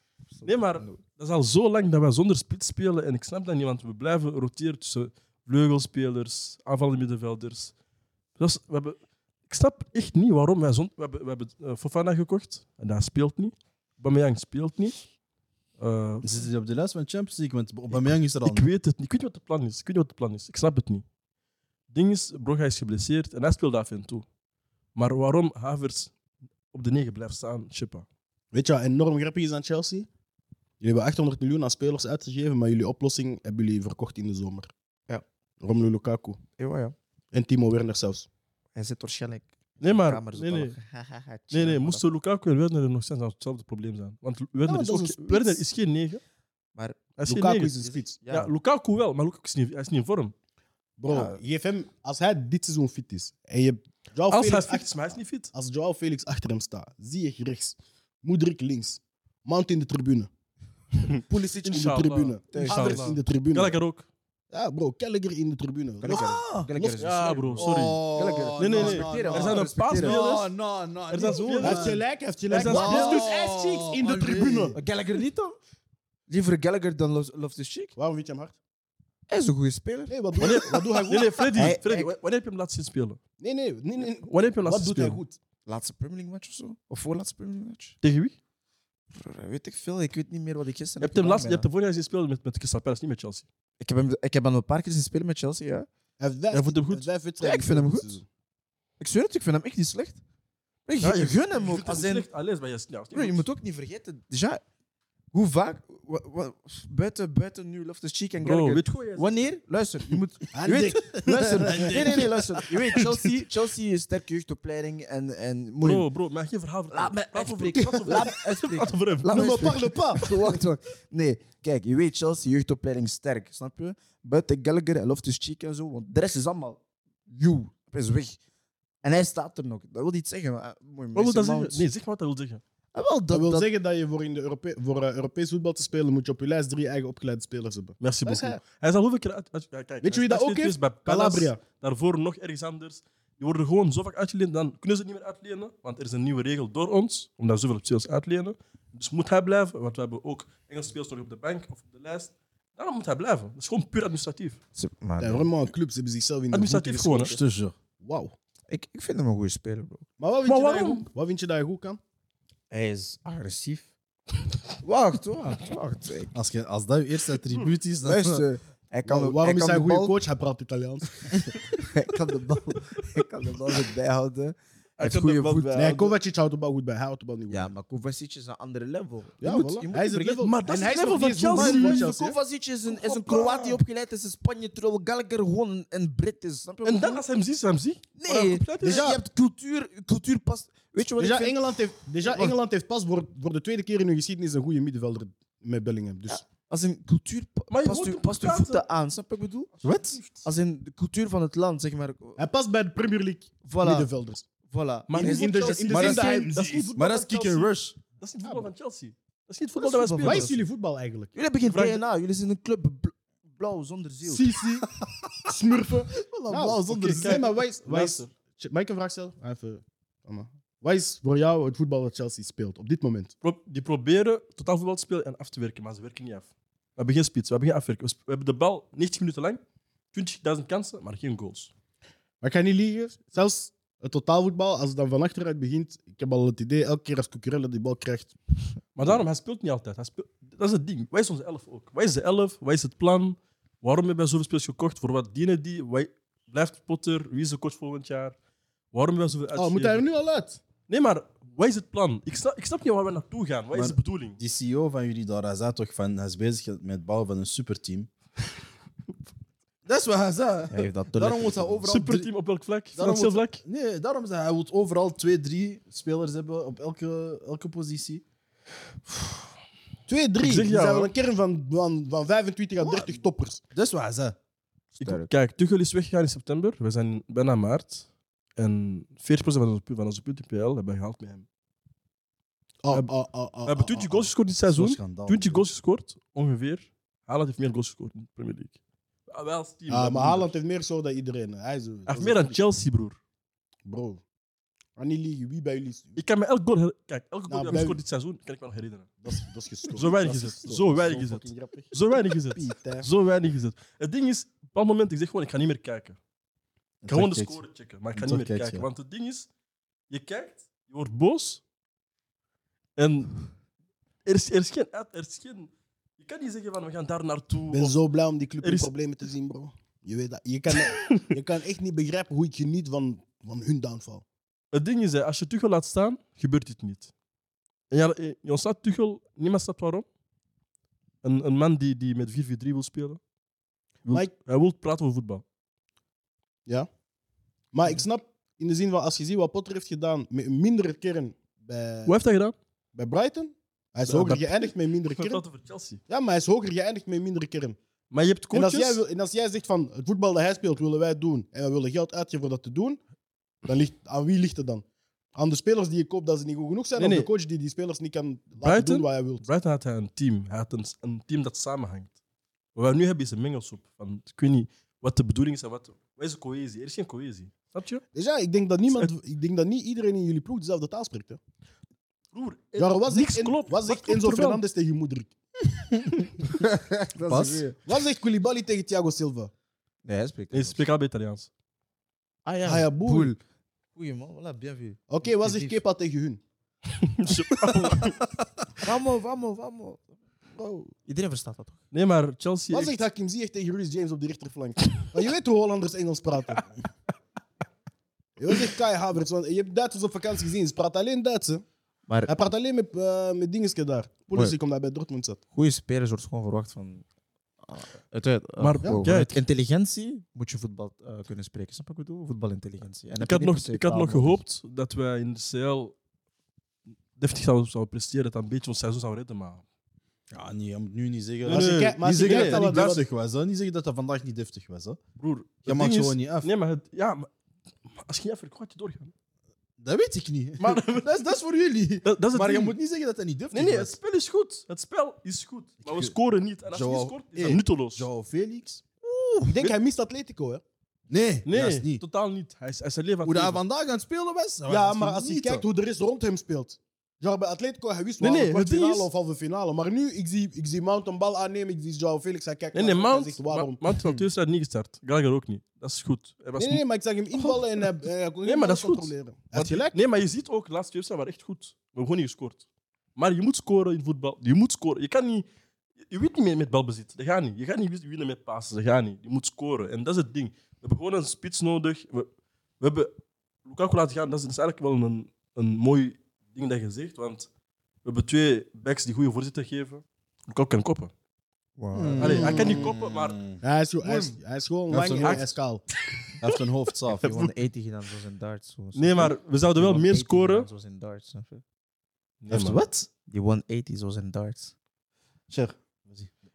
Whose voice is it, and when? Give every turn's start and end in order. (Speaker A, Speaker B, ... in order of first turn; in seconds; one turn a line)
Speaker A: 0.4-1.0
Speaker B: 0.4-7.7
Speaker B: 8.4-15.1
Speaker B: 15.8-16.4
Speaker C: 16.2-18.7
Speaker B: 17.9-21.0
Speaker B: 21.9-24.2
Speaker B: 24.9-26.1
Speaker B: 26.7-28.1
Speaker D: 28.5-30.1
Speaker D: 30.8-34.7
Speaker D: 35.6-36.4
Speaker A: 36.6-37.0
Speaker D: 37.3-38.3
Speaker A: 38.8-42.0
Speaker B: 39.8-40.8
Speaker B: 41.5-46.2
Speaker D: 44.6-45.6
Speaker A: 46.8-47.0
Speaker B: 47.2-47.8
Speaker D: 47.3-48.2
Speaker A: 47.8-48.5
Speaker B: 48.3-50.3
Speaker D: 51.0-55.0
Speaker A: 51.1-51.4
Speaker B: 54.3-55.5
Speaker D: 55.5-60.3
Speaker D: 61.2-63.8
Speaker B: 61.6-64.1
Speaker A: 62.5-63.2
Speaker D: 64.5-67.0
Speaker A: 66.0-70.3
Speaker C: 66.0-66.9
Speaker B: 67.0-68.0
Speaker C: 67.5-72.0
Speaker B: 68.6-70.5
Speaker B: 71.1-72.0
Speaker D: 71.6-74.8
Speaker B: 72.5-73.2
Speaker C: 72.6-74.8
Speaker A: 74.8-75.6
Speaker A: 76.3-77.9
Speaker D: 78.0-78.6
Speaker A: 79.3-80.5
Speaker D: 80.1-81.5
Speaker B: 80.4-83.2
Speaker A: 81.6-82.1
Speaker D: 83.4-85.4
Speaker B: 84.2-85.2
Speaker A: 85.7-88.0
Speaker B: 88.0-88.4
Speaker A: 89.2-91.7
Speaker B: 91.0-93.5
Speaker A: 93.8-95.9
Speaker D: 96.2-98.3
Speaker B: 96.5-97.1
Speaker A: 97.4-98.1
Speaker A: 99.0-100.2
Speaker A: 100.9-102.3
Speaker B: 101.0-103.5
Speaker A: 103.1-104.6
Speaker A: 105.3-116.1
Speaker B: 108.4-109.4
Speaker D: 110.5-112.3
Speaker C: 111.2-112.6
Speaker B: 115.8-119.8
Speaker A: 116.9-128.4
Speaker D: 117.8-118.3
Speaker D: 119.3-120.3
Speaker A: 129.0-131.8
Speaker B: 131.2-132.6
Speaker A: 132.9-133.7
Speaker D: 133.3-138.6
Speaker B: 138.0-154.6
Speaker D: 140.0-141.6
Speaker A: 154.8-155.5
Speaker D: 155.2-157.4
Speaker B: 156.5-157.3
Speaker C: 157.2-157.8
Speaker D: 158.0-158.3
Speaker A: 158.7-160.1
Speaker D: 160.2-162.0
Speaker B: 160.5-161.1
Speaker A: 162.7-163.9
Speaker A: 164.8-166.4
Speaker C: 166.3-168.5
Speaker A: 168.0-170.2
Speaker D: 169.1-171.2
Speaker A: 171.7-175.9
Speaker B: 175.0-176.1
Speaker D: 175.8-177.7
Speaker A: 177.5-180.5
Speaker D: 179.4-182.4
Speaker B: 180.4-182.1
Speaker A: 181.5-187.2
Speaker B: 182.9-183.8
Speaker B: 186.8-189.1
Speaker A: 188.2-191.6
Speaker D: 188.8-189.2
Speaker D: 191.2-196.4
Speaker A: 192.2-192.5
Speaker A: 196.3-199.7
Speaker B: 197.7-198.8
Speaker B: 199.8-200.4
Speaker C: 199.8-200.2
Speaker A: 200.4-202.4
Speaker D: 202.4-204.4
Speaker A: 203.6-204.1
Speaker A: 204.7-206.6
Speaker B: 205.1-210.5
Speaker D: 205.1-207.1
Speaker C: 205.9-206.4
Speaker C: 206.9-208.0
Speaker A: 209.8-210.6
Speaker D: 210.2-211.3
Speaker A: 211.3-214.6
Speaker B: 211.7-212.0
Speaker D: 214.2-214.9
Speaker C: 215.0-215.3
Speaker D: 215.5-223.3
Speaker C: 216.1-217.4
Speaker B: 216.9-218.3
Speaker B: 223.4-229.6
Speaker B: 230.1-231.7
Speaker D: 232.4-238.4
Speaker B: 238.9-248.3
Speaker B: 248.9-250.0
Speaker D: 249.5-250.6
Speaker B: 250.9-254.4
Speaker C: 253.7-258.1
Speaker C: 259.9-262.3
Speaker A: 260.7-261.9
Speaker B: 261.9-263.6
Speaker C: 262.9-268.2
Speaker D: 270.1-273.6
Speaker B: 270.4-271.1
Speaker C: 272.8-273.2
Speaker C: 273.7-274.4
Speaker B: 275.0-278.1
Speaker A: 275.0-275.3
Speaker B: 278.6-281.5
Speaker D: 282.8-284.3
Speaker B: 283.7-288.8
Speaker C: 284.7-285.6
Speaker B: 289.3-290.5
Speaker D: 289.9-292.6
Speaker B: 292.1-293.2
Speaker D: 293.9-294.2
Speaker D: 295.0-296.2
Speaker B: 296.2-299.2
Speaker D: 297.5-298.0
Speaker D: 299.2-303.1
Speaker B: 299.9-306.2
Speaker C: 307.0-307.6
Speaker B: 307.1-309.5
Speaker C: 308.1-308.9
Speaker B: 310.1-311.6
Speaker B: 313.0-313.5
Speaker B: 314.2-318.0
Speaker D: 317.7-324.2
Speaker B: 318.6-318.9
Speaker B: 320.8-321.2
Speaker B: 324.7-327.1
Speaker B: 327.9-330.1
Speaker B: 331.2-333.2
Speaker B: 334.1-335.4
Speaker D: 334.1-334.3
Speaker D: 337.7-342.1
Speaker B: 342.1-342.6
Speaker D: 342.9-345.4
Speaker B: 344.1-346.0
Speaker D: 346.1-347.8
Speaker B: 348.1-349.0
Speaker D: 348.5-353.0
Speaker D: 353.6-359.5
Speaker B: 357.0-357.3
Speaker B: 358.6-362.1
Speaker B: 362.8-368.0
Speaker D: 368.1-371.4
Speaker B: 372.3-374.6
Speaker D: 372.8-375.3
Speaker A: 376.5-377.8
Speaker C: 377.3-377.7
Speaker D: 377.9-379.5
Speaker A: 380.1-380.8
Speaker B: 380.5-381.5
Speaker A: 382.4-383.4
Speaker D: 382.6-383.4
Speaker A: 384.0-385.8
Speaker D: 385.1-386.4
Speaker B: 387.0-388.2
Speaker A: 387.7-387.9
Speaker A: 388.8-390.1
Speaker D: 390.6-390.9
Speaker A: 391.1-391.8
Speaker B: 391.9-393.0
Speaker D: 392.7-396.6
Speaker D: 398.4-401.6
Speaker D: 402.3-405.4
Speaker A: 405.5-407.1
Speaker A: 407.6-414.4
Speaker B: 408.6-409.4
Speaker B: 413.2-415.9
Speaker B: 417.2-419.6
Speaker C: 420.3-425.0
Speaker B: 421.4-422.9
Speaker D: 421.5-423.1
Speaker B: 425.2-427.3
Speaker C: 425.7-426.5
Speaker B: 428.0-429.1
Speaker C: 429.8-434.0
Speaker B: 430.6-431.2
Speaker B: 432.1-432.8
Speaker B: 433.5-438.1
Speaker C: 435.8-436.1
Speaker C: 436.7-438.9
Speaker B: 439.2-439.7
Speaker D: 439.4-440.6
Speaker C: 441.1-442.0
Speaker B: 441.5-443.6
Speaker C: 443.2-445.6
Speaker D: 444.7-454.2
Speaker B: 448.2-449.1
Speaker B: 452.7-456.8
Speaker D: 456.6-459.9
Speaker B: 457.4-457.6
Speaker B: 458.4-462.6
Speaker B: 463.2-465.5
Speaker B: 466.1-472.3
Speaker B: 472.8-473.1
Speaker B: 473.6-477.5
Speaker B: 478.0-481.1
Speaker A: 481.8-482.6
Speaker C: 481.9-483.6
Speaker B: 482.2-483.4
Speaker D: 482.2-482.9
Speaker D: 483.6-485.9
Speaker C: 484.9-485.6
Speaker B: 485.1-485.5
Speaker C: 486.4-487.5
Speaker A: 487.1-491.6
Speaker B: 487.2-487.5
Speaker B: 488.9-490.7
Speaker B: 492.4-492.8
Speaker C: 492.5-493.1
Speaker A: 493.3-494.7
Speaker C: 495.5-496.3